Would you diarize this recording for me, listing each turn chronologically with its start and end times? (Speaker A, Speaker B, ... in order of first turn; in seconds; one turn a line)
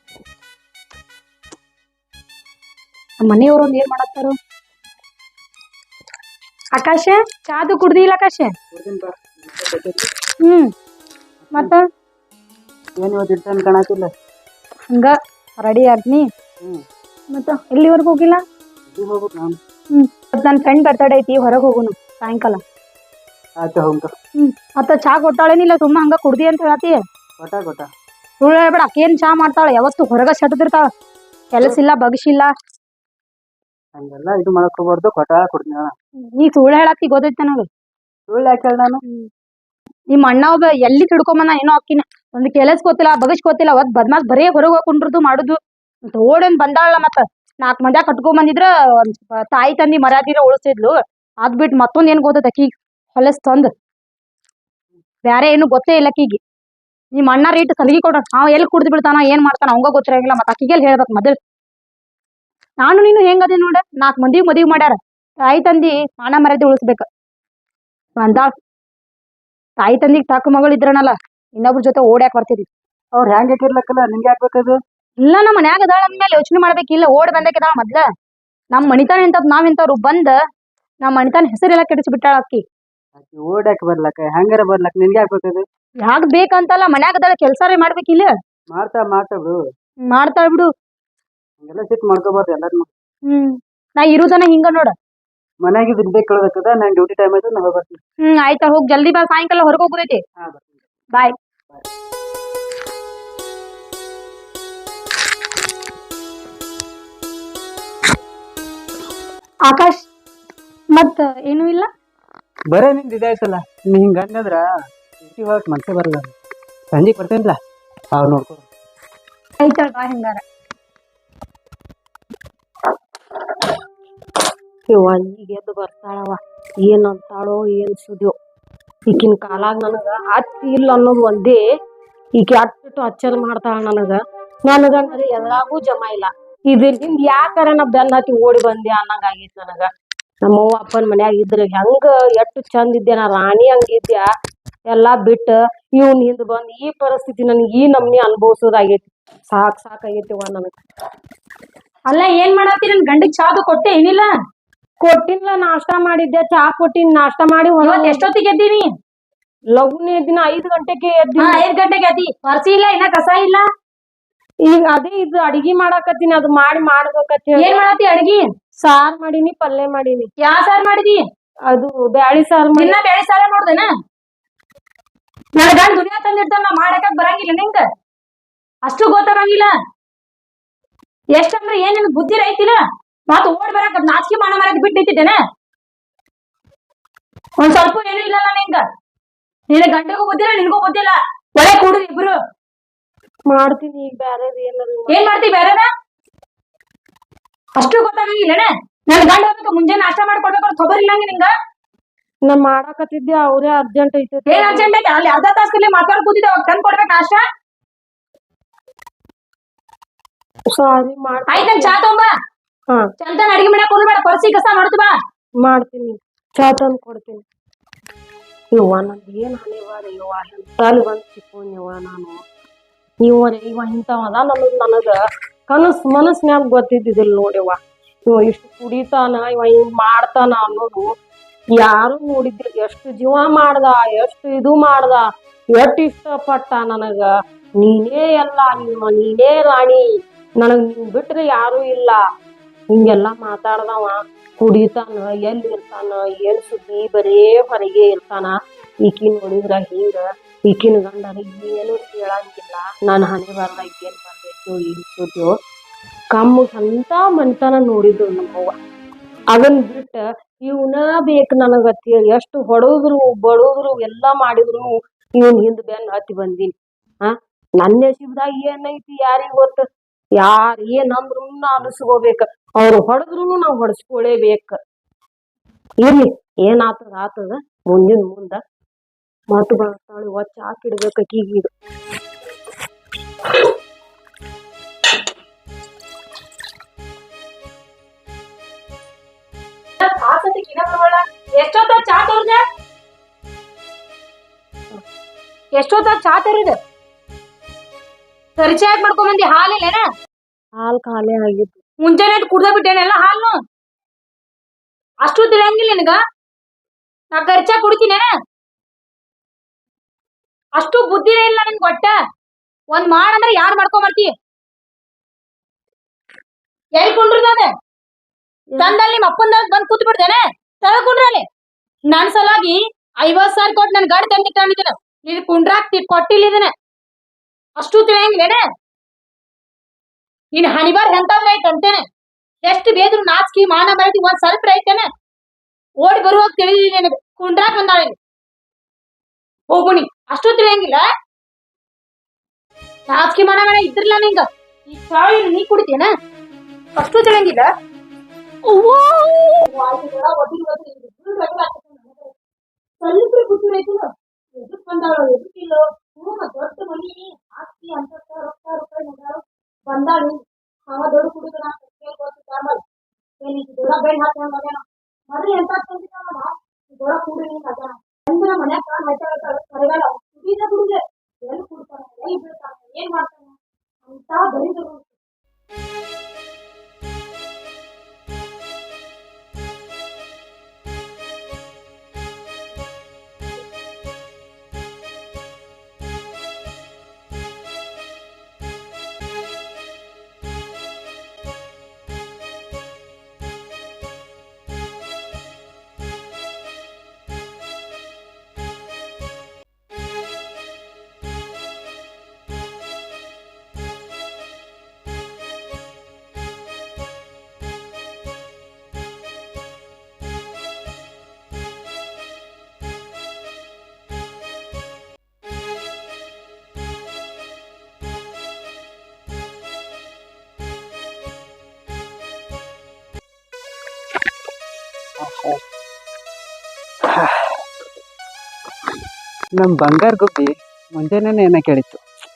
Speaker A: 3.2-4.4
Speaker A: 6.7-8.5
Speaker B: 8.7-10.1
Speaker A: 10.4-10.7
Speaker B: 11.4-11.7
Speaker A: 11.6-11.8
Speaker B: 13.0-14.1
Speaker A: 14.9-16.3
Speaker A: 17.3-18.4
Speaker B: 18.9-19.6
Speaker A: 19.9-22.6
Speaker B: 23.6-24.1
Speaker A: 24.4-27.0
Speaker B: 27.4-27.9
Speaker A: 28.4-30.9
Speaker A: 31.5-32.5
Speaker B: 34.0-35.9
Speaker A: 36.3-37.7
Speaker B: 38.3-39.0
Speaker A: 40.1-45.6
Speaker A: 46.1-53.7
Speaker A: 55.3-56.4
Speaker A: 57.2-61.4
Speaker A: 62.8-67.1
Speaker A: 68.2-68.5
Speaker A: 69.8-72.7
Speaker B: 73.2-74.8
Speaker A: 75.2-78.0
Speaker A: 78.7-80.3
Speaker A: 81.0-82.6
Speaker B: 83.2-85.6
Speaker A: 86.0-88.3
Speaker B: 88.7-89.6
Speaker A: 90.1-90.7
Speaker B: 91.6-92.9
Speaker A: 93.3-94.9
Speaker B: 95.6-98.0
Speaker A: 98.2-100.2
Speaker B: 100.4-100.8
Speaker A: 109.7-110.1
Speaker A: 110.9-111.9
Speaker B: 112.7-114.6
Speaker B: 115.2-116.3
Speaker B: 116.9-117.6
Speaker B: 118.1-118.6
Speaker A: 119.6-120.4
Speaker C: 124.9-128.3
Speaker C: 129.1-131.6
Speaker C: 132.4-139.9
Speaker C: 140.4-144.3
Speaker C: 144.9-150.7
Speaker A: 152.1-154.3
Speaker C: 155.0-158.2
Speaker A: 157.8-158.9
Speaker C: 159.8-161.6
Speaker A: 161.4-163.7
Speaker C: 164.6-167.8
Speaker A: 167.6-168.4
Speaker C: 168.8-170.3
Speaker A: 170.4-171.2
Speaker C: 171.7-173.0
Speaker A: 172.7-173.9
Speaker A: 175.5-177.8
Speaker A: 178.8-179.7
Speaker A: 181.3-185.4
Speaker A: 187.6-188.8
Speaker A: 189.7-192.3
Speaker C: 193.5-195.2
Speaker A: 195.1-195.9
Speaker A: 197.8-201.5
Speaker C: 202.4-204.9
Speaker A: 204.5-207.4
Speaker C: 210.7-212.0
Speaker A: 211.5-212.3
Speaker A: 213.2-215.1
Speaker C: 215.6-217.4
Speaker C: 218.7-222.4
Speaker C: 223.2-225.2
Speaker C: 225.7-231.1
Speaker C: 231.8-235.2
Speaker C: 235.7-237.3
Speaker C: 237.8-240.0
Speaker C: 240.6-242.2
Speaker C: 242.9-255.5
Speaker C: 256.3-258.8
Speaker C: 259.5-269.8
Speaker C: 270.4-274.8
Speaker C: 276.0-278.6
Speaker C: 279.5-281.7
Speaker A: 290.0-292.6
Speaker A: 295.8-296.8
Speaker A: 298.6-300.1
Speaker C: 300.8-301.8
Speaker A: 302.0-303.6
Speaker A: 305.2-306.2
Speaker A: 307.3-308.3
Speaker A: 310.8-312.1
Speaker A: 312.9-314.3
Speaker A: 317.0-317.7
Speaker A: 318.8-321.4
Speaker A: 322.1-326.7
Speaker A: 327.8-328.6
Speaker A: 330.5-332.0
Speaker A: 332.6-335.1
Speaker A: 336.0-338.2
Speaker A: 339.7-341.0
Speaker A: 343.1-346.1
Speaker A: 347.0-347.7
Speaker A: 349.6-352.3
Speaker A: 353.0-362.8
Speaker A: 363.4-375.1
Speaker B: 425.2-425.6
Speaker B: 427.1-427.5
Speaker B: 429.6-432.0